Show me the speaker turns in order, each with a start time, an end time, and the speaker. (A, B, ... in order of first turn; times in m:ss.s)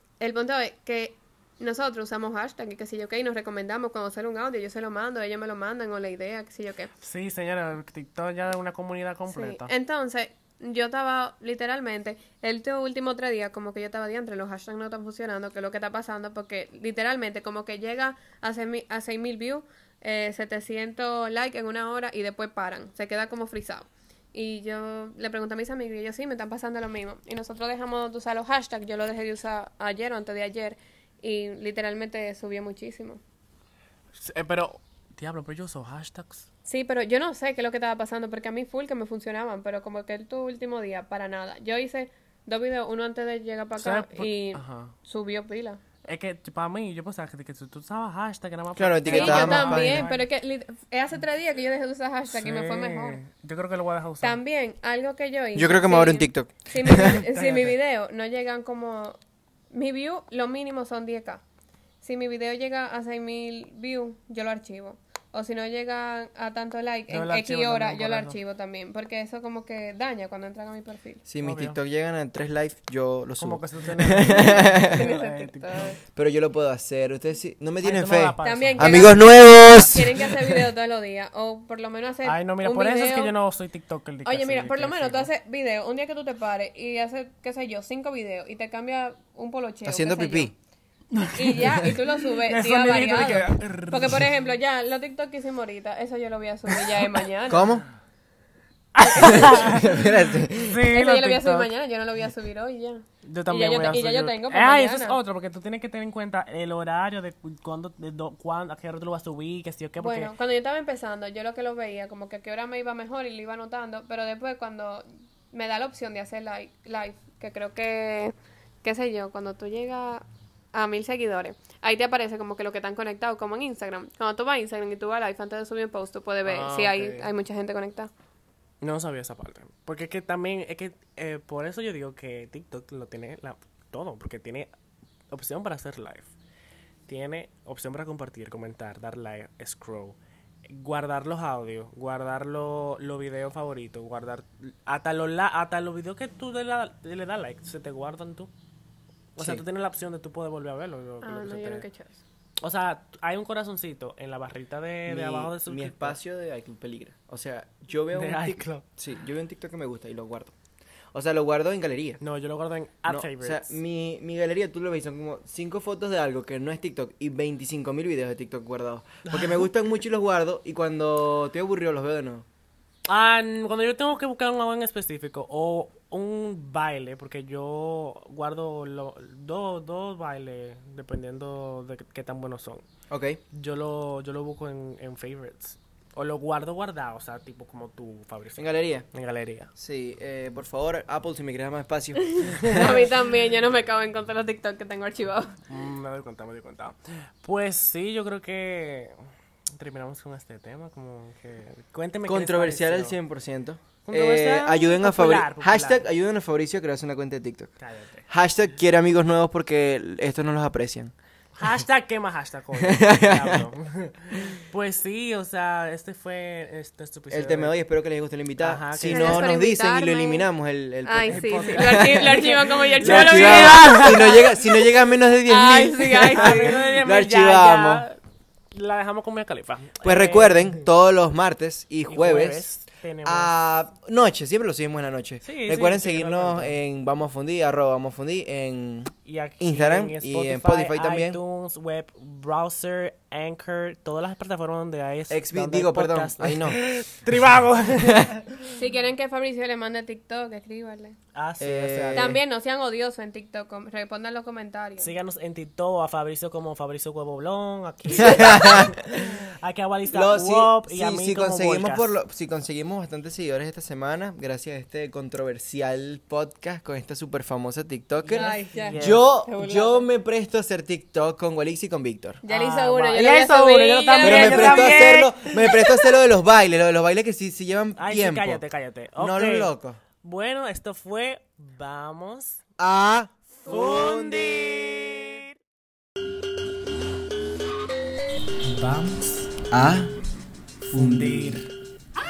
0:00.2-0:06.9 A
0:07.0-0:09.7 B
0:09.3-0:33.2 A
0:34.2-0:36.5 B
0:36.7-0:45.8 A
0:43.8-0:44.9 B
0:46.0-0:50.2 B
0:48.8-0:50.1 C
0:49.1-0:53.2 A
0:52.3-0:54.4 B
0:54.2-0:59.2 A
0:55.6-0:57.2 C
0:56.8-0:57.8 B
0:59.7-1:01.4 A
1:02.0-1:11.2 A
1:07.1-1:08.4 B
1:11.3-1:15.1 C
1:11.4-1:11.8 B
1:13.4-1:16.0 B
1:14.8-1:16.0 A
1:16.2-1:20.6 C
1:17.8-1:20.0 B
1:18.4-1:23.3 A
1:22.2-1:25.3 B
1:24.2-1:30.5 A
1:29.9-1:30.5 C
1:31.1-1:34.4 B
1:31.3-1:37.7 A
1:37.5-1:37.8 C
1:39.0-1:39.9 B
1:39.0-1:40.0 A
1:39.1-1:40.9 C
1:40.6-1:41.7 B
1:40.9-1:45.2 A
1:43.2-1:50.3 B
1:50.0-2:08.1 A
2:06.4-2:07.3 B
2:08.8-2:14.7 B
2:15.3-2:16.3 B
2:17.1-2:28.5 B
2:29.4-2:31.8 B
2:31.2-2:32.2 A
2:32.6-2:36.2 B
2:35.1-2:40.5 C
2:38.1-2:38.8 B
2:41.1-2:42.2 C
2:42.2-2:43.8 B
2:43.1-2:52.5 C
2:53.1-3:02.8 B
3:03.1-3:03.4 C
3:03.5-3:09.7 B
3:08.6-3:09.1 C
3:09.8-3:13.0 C
3:12.4-3:15.6 A
3:12.4-3:13.0 B
3:15.7-3:19.2 B
3:19.7-3:23.2 B
3:22.3-3:27.7 C
3:24.1-3:26.1 B
3:27.8-3:28.3 B
3:28.3-3:31.1 C
3:31.6-3:37.7 B
3:32.8-3:33.7 C
3:37.3-3:48.1 C
3:38.6-3:39.5 B
3:39.1-3:40.5 A
3:41.0-3:44.9 A
3:41.3-3:44.4 B
3:45.5-3:46.8 A
3:46.2-3:48.2 B
3:48.7-3:50.8 B
3:50.0-3:52.7 C
3:52.1-3:53.5 B
3:53.2-4:01.4 C
3:55.4-3:56.8 B
3:59.2-4:08.5 B
4:05.3-4:06.8 C
4:08.0-4:08.4 C
4:08.6-4:11.2 A
4:11.3-4:12.4 B
4:11.6-4:12.4 C
4:12.1-4:15.1 A
4:15.0-4:22.1 B
4:18.1-4:19.4 C
4:20.1-4:32.4 C
4:28.2-4:29.2 B
4:28.3-4:30.0 A
4:32.4-4:35.1 A
4:32.5-4:35.8 B
4:34.2-4:38.6 C
4:38.0-4:39.7 B
4:39.2-4:40.0 C
4:40.2-4:42.6 B
4:42.8-4:45.3 C
4:43.6-4:45.6 B
4:48.6-4:49.5 B
4:49.7-4:50.1 C
4:50.9-4:51.7 B
4:50.9-4:51.6 C